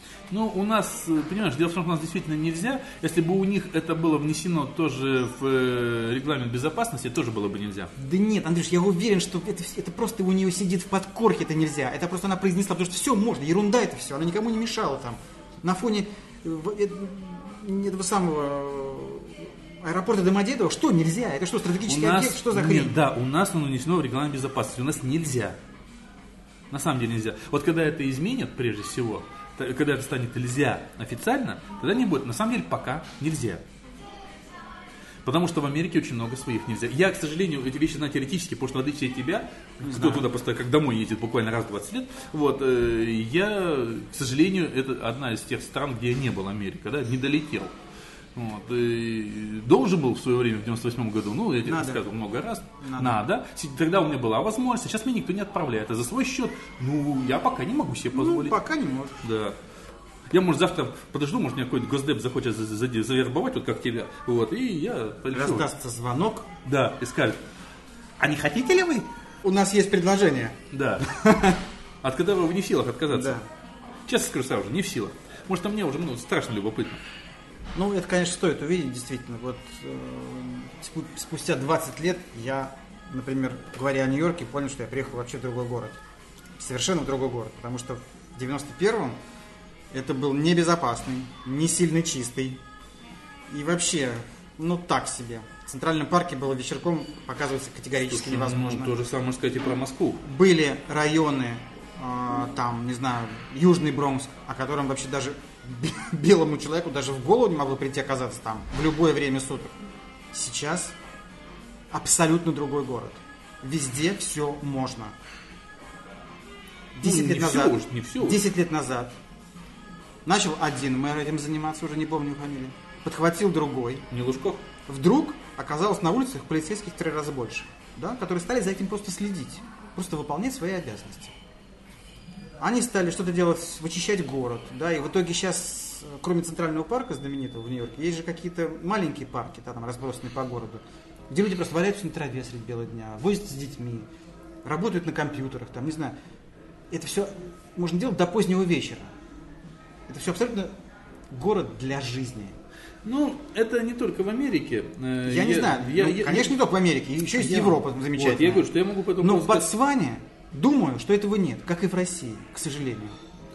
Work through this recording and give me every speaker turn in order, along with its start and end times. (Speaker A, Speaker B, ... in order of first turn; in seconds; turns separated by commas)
Speaker A: 0.3-7.9, Speaker B: 8.0-23.0, Speaker A: 21.9-25.6, Speaker A: 26.7-33.6, Speaker A: 35.2-47.7, Speaker B: 39.8-40.3, Speaker A: 48.4-58.5, Speaker B: 51.6-52.0, Speaker B: 52.8-53.2, Speaker B: 58.1-59.2, Speaker A: 59.2-59.6, Speaker A: 60.3-65.7, Speaker B: 65.3-66.5, Speaker A: 66.6-67.4, Speaker A: 68.2-69.1, Speaker B: 69.4-71.6, Speaker A: 70.7-71.1, Speaker A: 72.0-73.4, Speaker B: 73.1-73.5, Speaker A: 74.1-77.0, Speaker B: 77.8-86.0, Speaker B: 86.6-89.2, Speaker B: 89.9-92.6, Speaker B: 93.5-99.0, Speaker A: 98.1-100.2, Speaker B: 100.2-109.8, Speaker B: 110.3-111.0, Speaker B: 111.9-115.2, Speaker B: 117.0-119.2, Speaker A: 117.0-118.4, Speaker B: 120.2-124.0, Speaker A: 124.1-124.7, Speaker B: 124.9-131.3, Speaker B: 132.6-144.1, Speaker B: 144.6-146.2, Speaker B: 146.9-149.1, Speaker B: 150.1-150.8, Speaker B: 151.3-152.6, Speaker A: 153.1-156.6, Speaker B: 155.2-163.2, Speaker A: 157.3-159.7